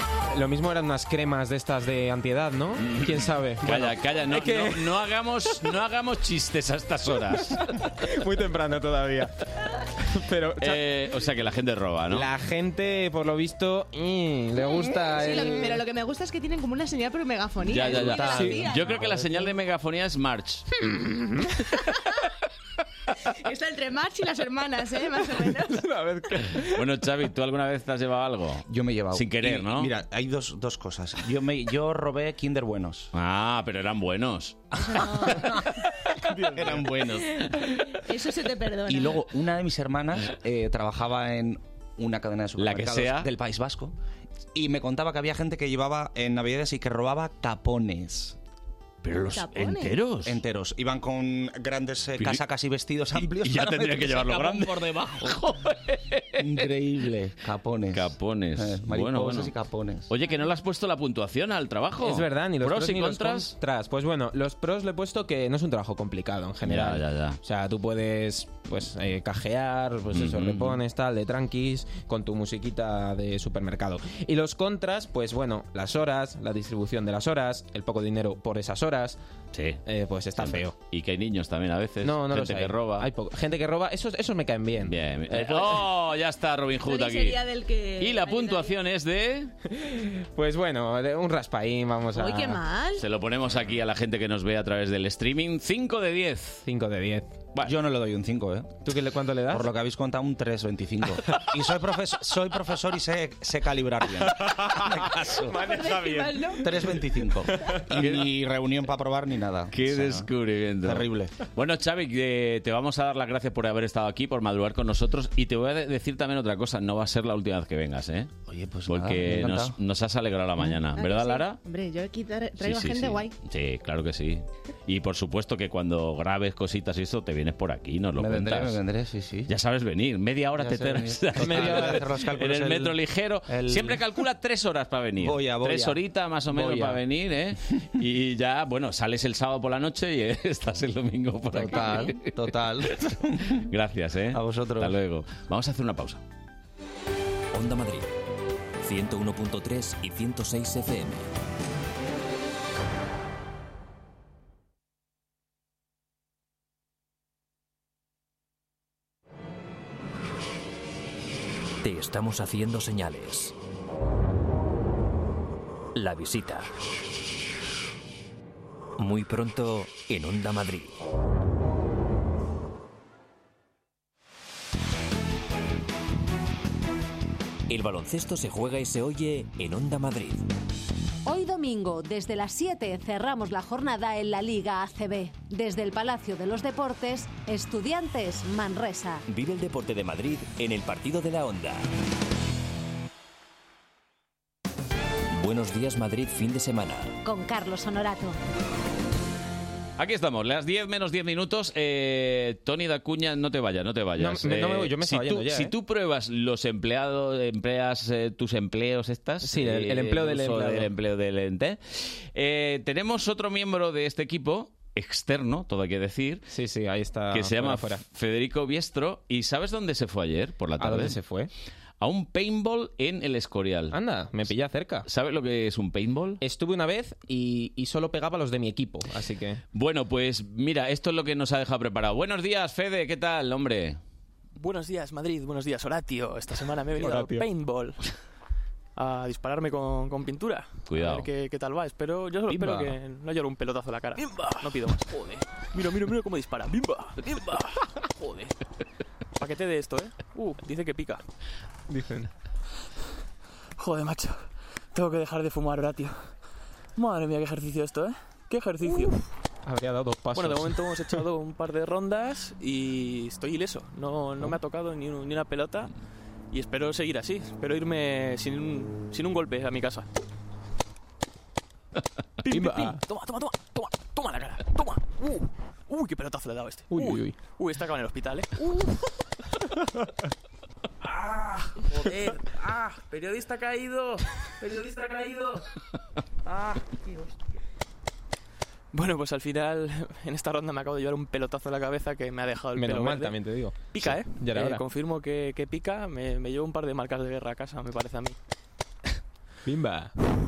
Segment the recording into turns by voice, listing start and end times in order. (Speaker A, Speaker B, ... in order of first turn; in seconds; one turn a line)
Speaker A: 0.3-5.0
Speaker B: 2.8-7.7
Speaker A: 7.9-9.3
Speaker A: 10.0-10.8
Speaker B: 10.6-12.3
Speaker A: 12.1-15.8
Speaker C: 15.1-19.3
Speaker B: 17.7-20.7
Speaker A: 18.0-18.8
Speaker A: 21.0-21.3
Speaker C: 23.2-25.9
Speaker A: 25.7-26.7
Speaker B: 26.6-29.9
Speaker D: 28.7-33.1
Speaker B: 33.1-34.7
Speaker C: 34.8-35.5
Speaker B: 36.4-37.6
Speaker D: 36.5-37.0
Speaker C: 37.9-39.2
Speaker D: 38.9-43.9
Speaker B: 42.6-43.3
Speaker D: 44.5-48.4
Speaker B: 49.0-50.4
Speaker C: 49.2-49.9
Speaker D: 50.2-55.4
Speaker B: 53.1-56.7
Speaker D: 56.4-60.1
Speaker B: 57.9-59.5
Speaker B: 60.1-63.5
Speaker A: 62.0-79.2
Speaker B: 66.6-67.4
Speaker B: 70.1-70.8
Speaker B: 79.5-79.8
Speaker A: 79.8-80.7
Speaker B: 80.4-83.1
Speaker A: 82.0-85.8
Speaker B: 84.8-87.4
Speaker C: 86.8-88.7
Speaker B: 88.0-89.5
Speaker A: 89.7-92.6
Speaker C: 92.1-93.0
Speaker B: 93.0-96.6
Speaker A: 96.6-97.4
Speaker D: 97.6-98.8
Speaker A: 98.8-99.7
Speaker D: 99.5-105.5
Speaker A: 104.4-106.5
Speaker C: 105.6-106.6
Speaker D: 106.6-110.3
Speaker B: 108.0-108.2
Speaker B: 109.7-118.3
Speaker D: 110.8-111.3
Speaker D: 118.5-119.8
Speaker B: 118.8-121.6
Speaker C: 120.9-123.3
Speaker B: 122.6-128.8
Speaker D: 128.2-129.5
Speaker B: 129.5-146.2
Speaker D: 130.6-132.9
Speaker A: 131.4-132.1
Speaker D: 133.5-134.0
Speaker D: 135.2-136.0
Speaker A: 136.5-136.9
Speaker D: 141.5-143.6
Speaker D: 144.3-145.0
Speaker E: 147.5-148.1
Speaker E: 148.8-151.3
Speaker E: 161.8-163.5
Speaker E: 165.9-166.7
Speaker E: 169.0-171.0
Speaker E: 177.7-180.5
Speaker F: 181.2-189.2
Speaker E: 189.3-191.9
Speaker E: 195.3-197.2
Speaker F: 197.2-198.4
Speaker B: 200.0-216.5
Speaker A: 204.2-205.7
Speaker A: 209.4-210.9
Speaker A: 216.5-218.0
Speaker B: 217.3-221.2
Speaker A: 220.8-221.5
Speaker B: 222.0-224.5
Speaker A: 223.9-225.1
Speaker B: 225.1-226.4
Speaker A: 226.4-229.6
Speaker B: 229.7-234.0
Speaker G: 234.5-238.0
Speaker A: 237.0-237.4
Speaker G: 238.9-248.6
Speaker B: 240.9-241.3
Speaker B: 242.5-242.9
Speaker G: 249.3-251.2
Speaker A: 251.9-252.3
Speaker G: 253.8-256.3
Speaker G: 257.0-259.3
Speaker A: 259.6-261.2
Speaker G: 260.3-265.9
Speaker G: 266.5-270.1
Speaker A: 272.5-273.0
Speaker G: 272.5-278.8
Speaker A: 276.9-277.4
Speaker G: 282.0-285.5
Speaker G: 288.9-293.4
Speaker A: 292.7-294.8
Speaker G: 293.9-298.4
Speaker A: 299.6-300.1